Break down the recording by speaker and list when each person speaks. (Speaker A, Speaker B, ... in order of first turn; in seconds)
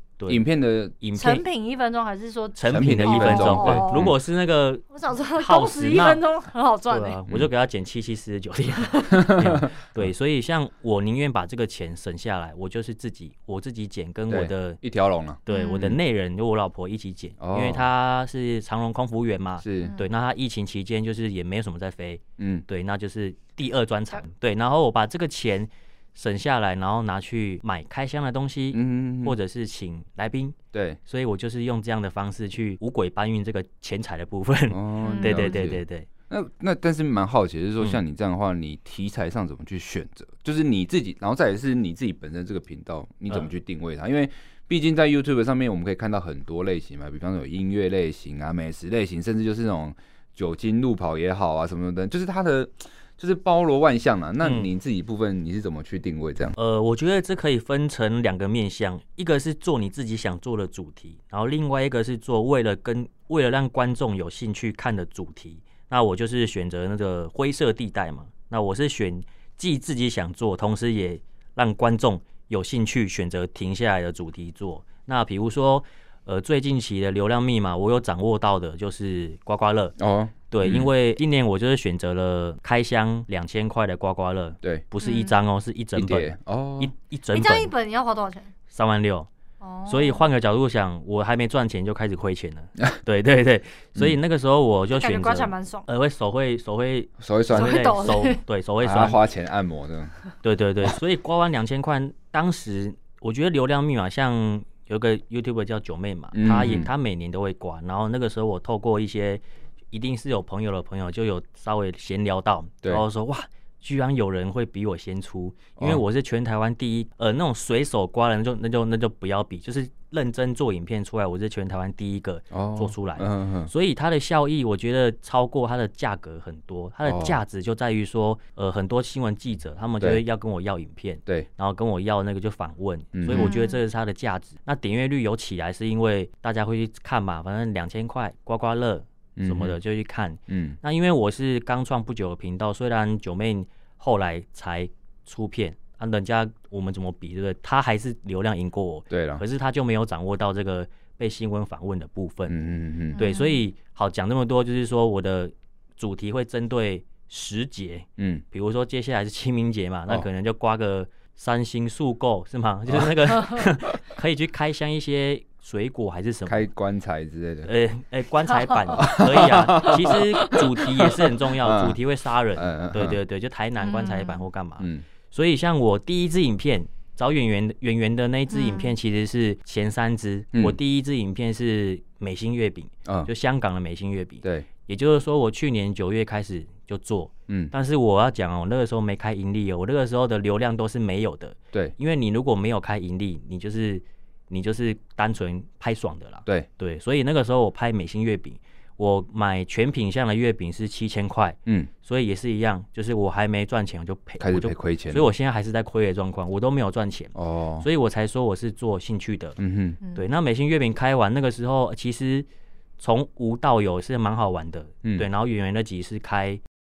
Speaker A: 0.3-1.0, 2.7-4.1, 9.1-10.1, 14.3-16.0, 17.4-17.9, 19.6-19.9, 22.4-22.7, 28.7-29.4, 30.7-31.0, 34.7-56.6, 80.0-80.9, 86.0-86.9, 97.2-97.9, 98.8-100.2, 106.3-106.9, 122.5-123.7, 127.0-127.4, 133.1-133.6, 139.4-139.8, 140.5-140.8, 149.1-149.4, 152.5-153.3, 158.2-158.4, 166.5-167.7, 169.0-172.0, 172.6-173.2, 174.8-175.0, 204.4-205.3, 207.3-207.9, 209.6-210.0
Speaker B: 1.0-1.4, 2.6-4.8, 5.4-6.2, 6.9-14.8, 15.5-36.1, 54.4-54.7, 56.6-80.0, 80.5-87.7, 88.7-89.3, 89.9-99.2, 100.4-152.6, 153.2-166.7, 167.6-209.6, 210.1-212.5, 213.0-216.6
Speaker C: 1.2-4.1, 4.9-7.2, 15.5-15.9, 19.8-20.1, 35.0-35.6, 85.0-85.3, 87.3-88.5, 89.6-90.3, 95.0-95.9, 97.5-98.4, 133.3-133.8, 153.1-153.6, 168.6-169.0, 173.8-174.4, 178.5-178.9